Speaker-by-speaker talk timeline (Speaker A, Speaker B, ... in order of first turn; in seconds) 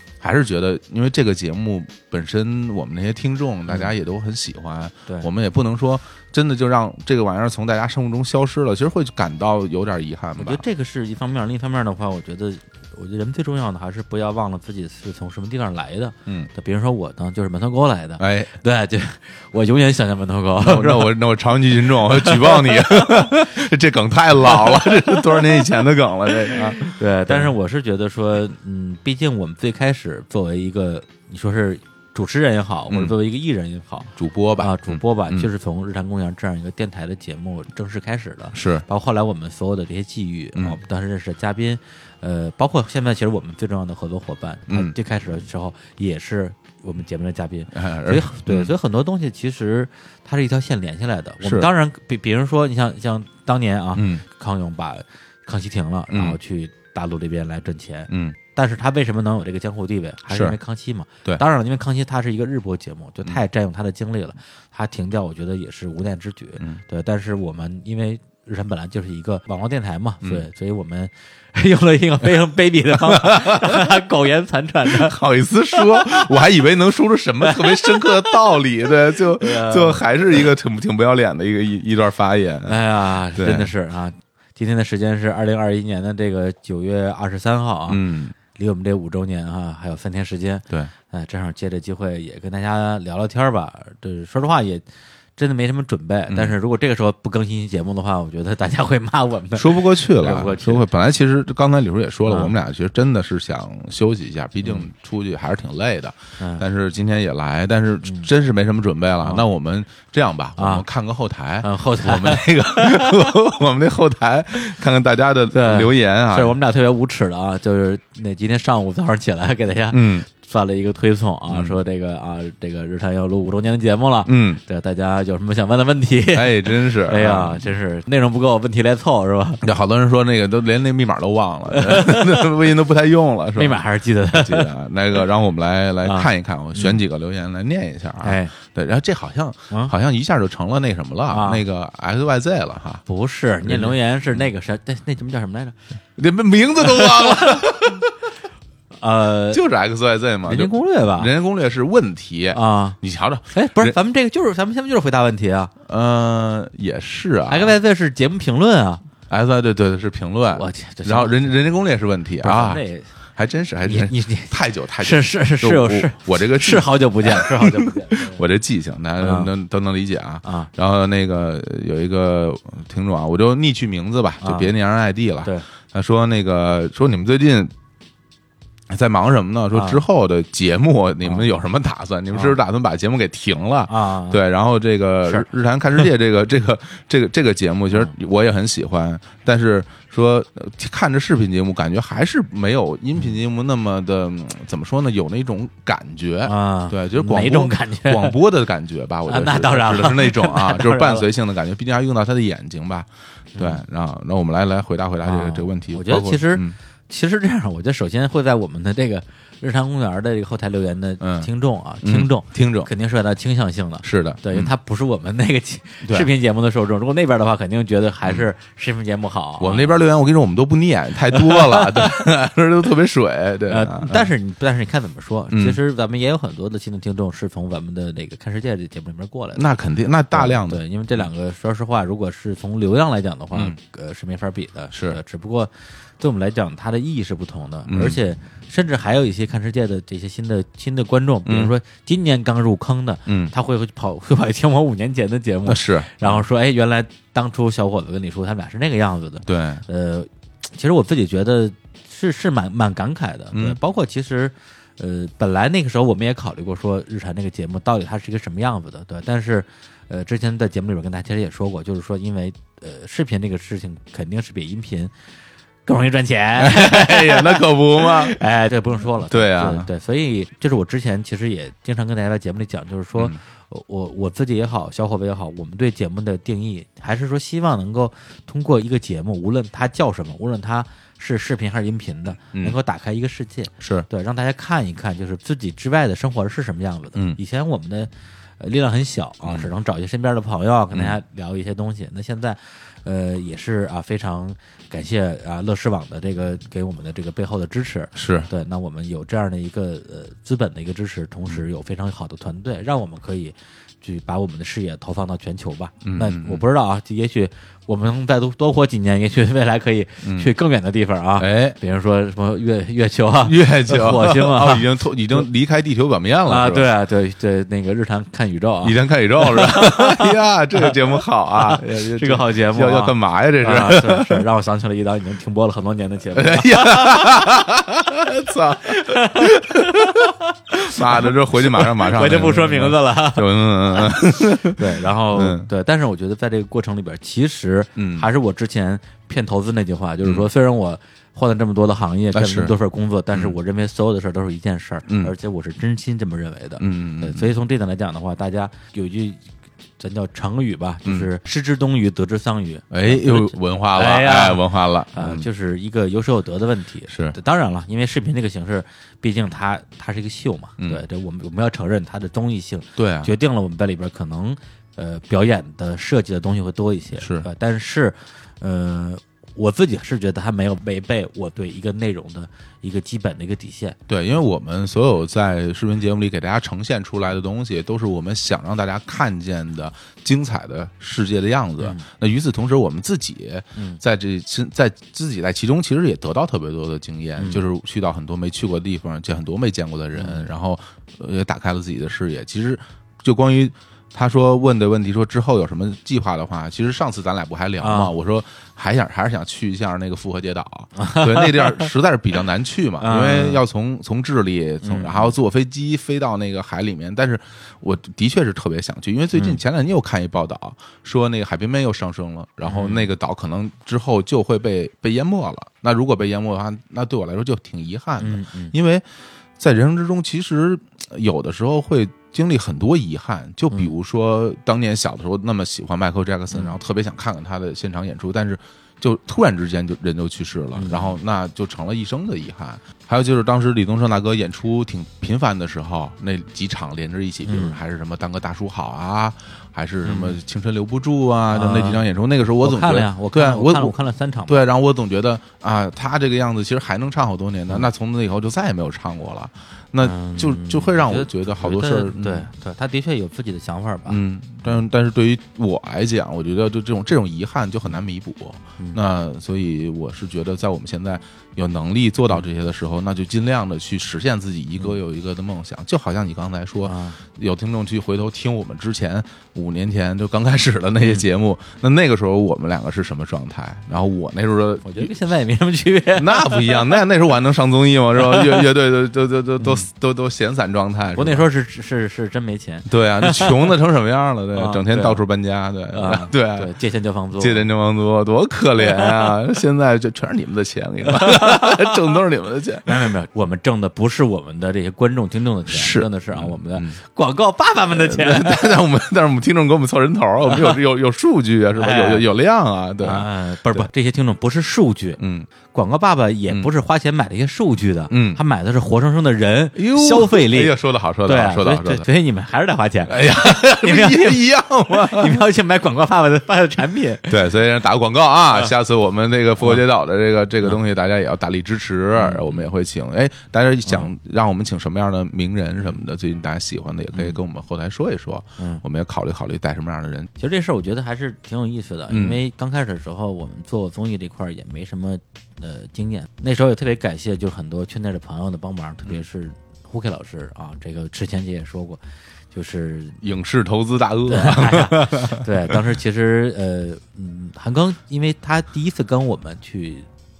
Speaker A: 0.2-10.6, 18.2-18.5, 20.6-27.5, 32.9-33.1, 34.2-35.5, 38.5-38.8, 44.7-44.9, 47.7-48.7, 51.4-51.7, 53.9-54.2, 56.1-56.4, 58.1-58.4, 60.3-60.6, 72.9-74.0, 74.8-82.8, 83.3-83.7, 87.9-88.3, 99.5-116.6, 119.9-120.2, 121.5-121.8, 124.2-124.6, 126.3-127.7, 129.6-143.0, 143.7-143.9, 146.2-148.1, 149.5-153.9, 155.9-157.7, 159.3-162.8, 163.3-177.7, 178.9-206.8, 211.2-211.5, 212.0-212.9, 214.0-214.7, 216.0-216.3, 219.6-224.3, 225.5-225.8, 229.5-230.8, 234.9-235.2, 237.9-238.2, 241.4-241.7, 243.2-243.5, 245.7-246.4, 249.4-249.8, 253.5-253.8, 266.6-268.4, 269.3-269.9, 283.8-284.1, 287.1-287.4, 290.9-291.2, 298.1-298.5, 306.0-306.6, 310.2-310.5, 311.4-311.8, 313.4-316.9, 318.8-324.4, 326.4-330.3, 330.9-334.8, 335.3-335.7, 337.9-338.3, 342.3-342.7, 345.1-345.3, 346.8-347.5, 352.9-355.5, 357.1-357.3, 363.0-363.3, 367.2-367.5, 374.1-419.1, 419.6-443.9, 444.5-452.5, 454.1-475.1, 476.2-481.4, 482.9-486.7, 487.4-492.9, 495.7-497.0, 497.9-503.9, 505.2-505.5, 508.1-508.4, 509.8-512.1, 513.1-515.4, 517.3-530.3, 532.1-532.4, 543.2-545.5
Speaker B: 10.3-21.1, 22.1-23.1, 24.5-25.5, 26.5-75.2, 75.8-76.3, 77.4-78.3, 79.4-80.0, 82.6-88.0, 88.5-94.8, 95.4-100.8, 102.2-102.5, 104.6-104.9, 108.0-108.3, 110.6-110.8, 111.6-113.2, 115.5-129.6, 131.7-132.4, 133.6-134.7, 136.0-137.0, 138.2-138.5, 141.3-141.6, 143.1-145.8, 146.9-147.3, 149.0-149.6, 150.4-151.3, 152.5-153.0, 153.5-155.7, 157.5-159.0, 160.5-161.5, 162.4-163.1, 163.8-168.4, 169.2-169.5, 170.4-170.7, 174.4-174.7, 179.7-180.0, 182.3-182.6, 183.9-184.4, 196.4-198.3, 199.3-201.2, 203.5-203.8, 205.2-220.0, 221.3-222.2, 223.7-229.7, 230.3-265.1, 265.9-315.4, 316.5-320.9, 321.5-327.5, 328.8-349.4, 350.0-374.0, 381.8-382.1, 383.8-384.0, 390.1-390.5, 397.8-398.1, 401.0-401.9, 403.0-403.6, 404.8-405.3, 412.6-413.1, 418.2-418.7, 430.8-431.2, 437.4-437.8, 440.1-440.4, 441.5-442.0, 442.6-444.6, 450.0-454.2, 466.8-467.2, 474.8-477.0, 478.2-478.6, 479.6-479.9, 481.1-483.7, 484.5-485.2, 485.9-487.7, 491.2-491.9, 492.8-498.6, 501.8-502.2, 503.0-505.2, 505.7-517.4, 522.1-522.7, 527.1-527.4, 530.4-542.0, 542.5-543.2, 544.3-550.1